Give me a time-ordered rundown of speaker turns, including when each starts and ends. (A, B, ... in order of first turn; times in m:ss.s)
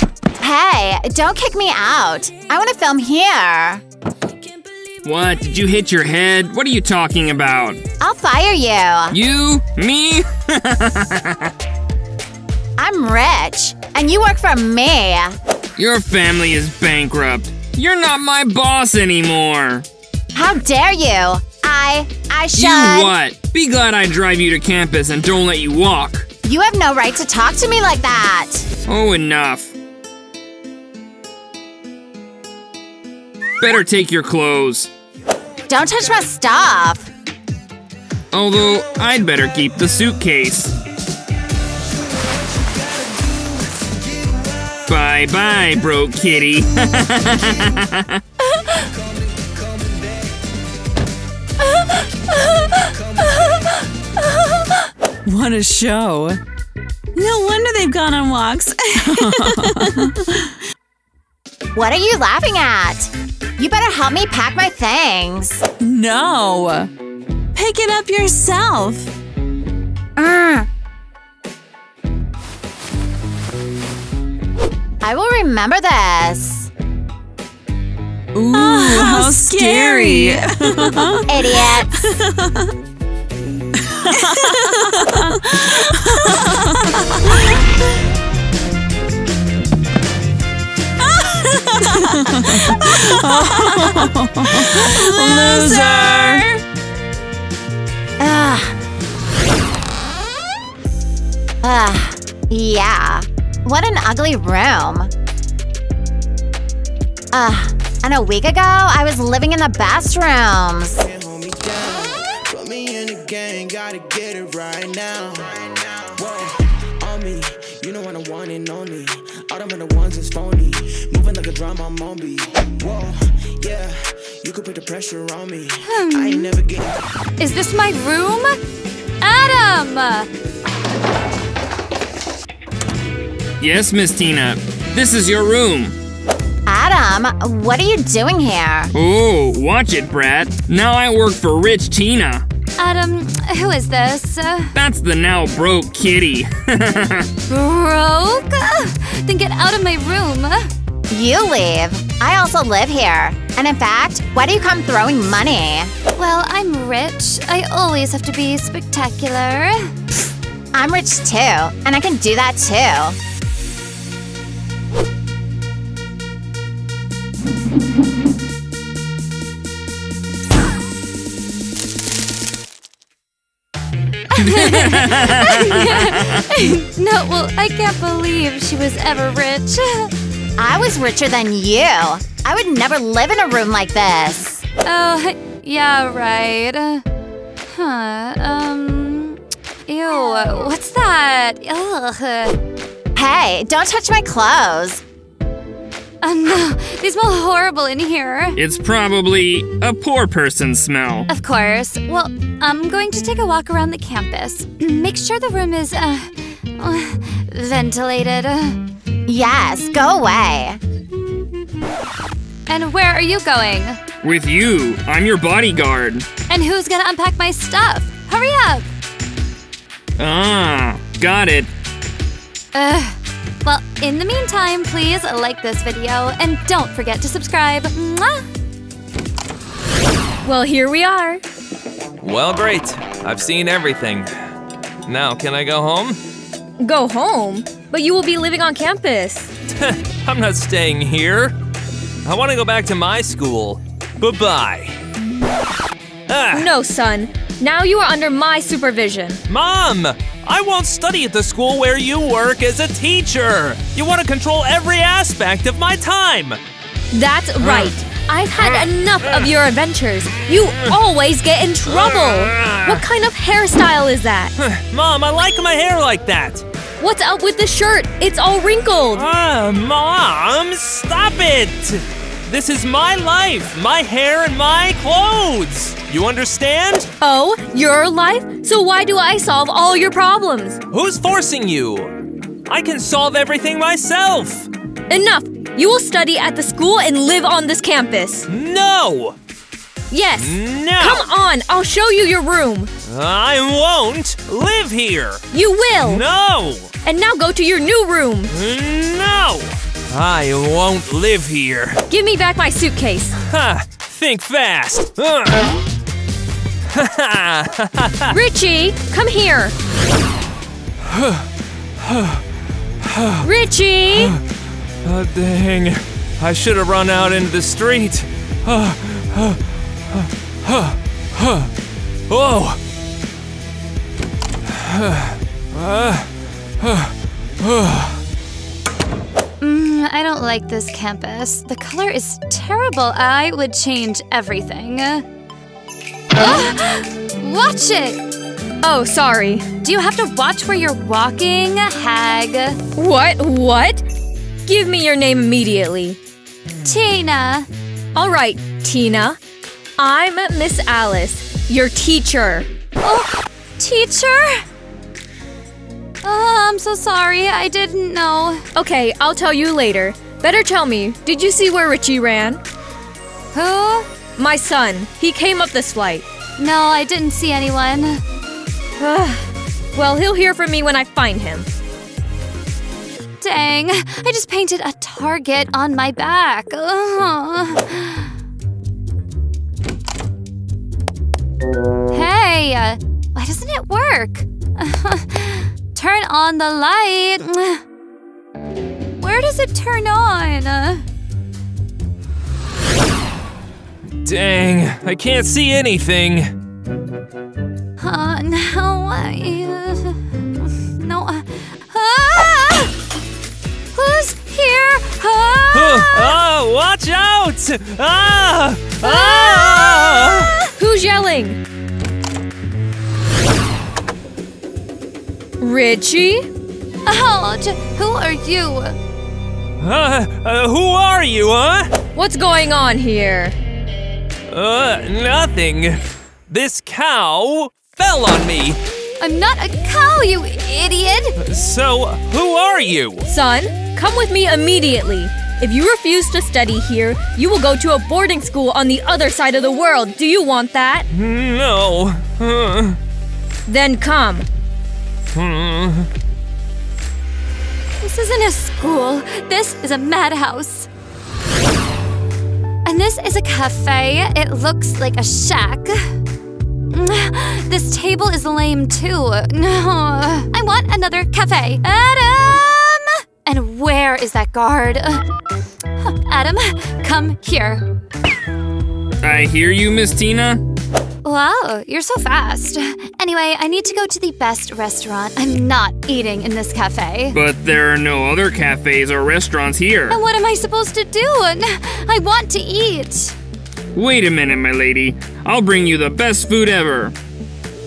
0:00.4-0:03.8 A
0:05.0-0:07.8 B
0:08.0-0:09.2 A
0:09.1-0:11.5 B
0:12.8-0:15.4 A
0:15.8-0:19.8 B
0:20.3-0:23.2 A
0:22.6-0:26.3 B
0:26.4-0:28.7 A
0:28.9-0:29.7 B
0:33.6-0:34.9 B
0:35.7-0:37.1 A
0:38.3-0:40.8 B
0:44.9-0:48.2 B
0:49.3-0:50.2 C
0:55.3-0:56.4 D
0:57.2-1:00.3 D
1:01.7-1:05.7 A
1:05.8-1:06.9 D
1:07.6-1:09.1 D
1:10.2-1:10.7 A
1:15.0-1:16.7 A
1:18.3-1:22.2 D
1:18.5-1:20.2 E
1:19.0-1:20.2 F
1:21.3-1:21.9 A
1:24.0-1:26.8 D
1:31.8-1:36.5 D
1:38.2-1:38.8 A
1:41.6-1:45.1 A
1:47.3-1:51.0 A
1:51.0-2:07.0 C
2:05.8-2:06.5 E
2:07.4-2:08.6 E
2:09.2-2:10.3 E
2:13.6-2:16.0 B
2:16.7-2:18.9 A
2:18.9-2:22.4 B
2:22.8-2:24.7 E
2:24.8-2:27.3 B
2:27.5-2:30.7 E
2:31.1-2:35.9 A
2:36.2-2:39.9 E
2:40.7-2:43.2 A
2:54.3-3:00.1 E
2:54.5-2:56.4 B
3:00.6-3:04.6 A
3:04.8-3:07.0 E
3:07.7-3:12.6 E
3:13.2-3:15.0 A
3:16.2-3:18.6 E
3:18.6-3:21.3 B
3:21.3-3:28.8 E
3:29.3-3:30.8 A
3:32.7-3:34.0 E
3:34.2-3:36.3 B
3:36.5-3:38.9 E
3:40.2-3:41.7 B
3:42.7-3:48.5 E
3:50.4-3:51.4 F
3:52.2-3:54.3 G
3:55.1-3:56.2 G
3:56.8-3:59.5 F
3:59.7-4:01.6 G
4:02.2-4:05.0 G
4:06.3-4:06.7 G
4:06.5-4:09.4 F
4:09.5-4:16.6 G
4:17.1-4:24.5 F
4:17.6-4:17.9 G
4:18.6-4:19.4 G
4:20.4-4:21.0 G
4:21.9-4:23.0 G
4:24.6-4:26.7 G
4:27.0-4:29.2 F
4:29.2-4:37.1 G
4:37.2-4:40.8 F
4:40.9-4:42.1 G
4:42.7-4:44.7 G
4:45.1-4:48.5 F
4:48.5-4:49.4 G
4:50.1-4:52.9 F
4:50.4-4:51.3 G
4:53.1-4:55.4 G
4:55.5-4:56.2 F
4:56.0-4:56.9 G
4:57.0-4:58.5 F
4:58.5-5:02.0 G
5:02.1-5:03.4 F
5:03.5-5:05.7 G
5:06.9-5:08.4 G
5:08.3-5:09.7 F
5:11.1-5:11.5 G
5:12.0-5:12.4 G
5:13.0-5:13.5 G
5:13.4-5:14.4 F
5:14.1-5:14.4 G
5:15.0-5:21.7 G
5:22.3-5:22.8 G
5:24.7-5:28.2 G
5:29.6-5:35.2 E
5:36.4-5:38.2 E
5:36.4-5:36.7 F
5:38.8-5:39.7 F
5:39.8-5:42.8 E
5:43.0-5:44.0 F
5:44.7-5:46.2 F
5:46.8-5:47.7 E
5:48.2-5:49.4 F
5:50.0-5:52.7 F
5:53.0-5:54.6 E
5:56.2-5:58.6 E
5:58.8-6:02.6 F
6:03.5-6:04.1 E
6:04.4-6:06.2 F
6:06.6-6:08.2 E
6:09.0-6:11.7 F
6:13.4-6:18.3 E
6:22.1-6:27.8 E
6:29.2-6:31.0 E
6:34.2-6:36.5 G
6:38.0-6:40.2 E
6:40.9-6:43.0 E
6:43.9-6:46.4 E
6:45.7-6:50.5 G
6:49.0-6:50.7 E
6:50.8-6:51.6 F
6:55.6-6:56.5 F
6:57.0-6:59.0 E
6:59.8-7:01.9 G
7:02.2-7:03.6 F
7:04.5-7:08.8 G
7:09.2-7:11.4 E
7:11.4-7:13.3 G
7:13.3-7:21.1 F
7:21.1-7:23.0 G
7:23.7-7:24.5 F
7:25.3-7:26.1 G
7:28.0-7:30.9 E
7:32.8-7:36.1 E
7:36.9-7:45.2 E
7:46.0-7:47.8 E
7:49.2-7:50.6 B
7:51.2-7:57.4 E
7:57.3-8:00.2 B
8:00.1-8:03.4 E
8:04.0-8:07.1 B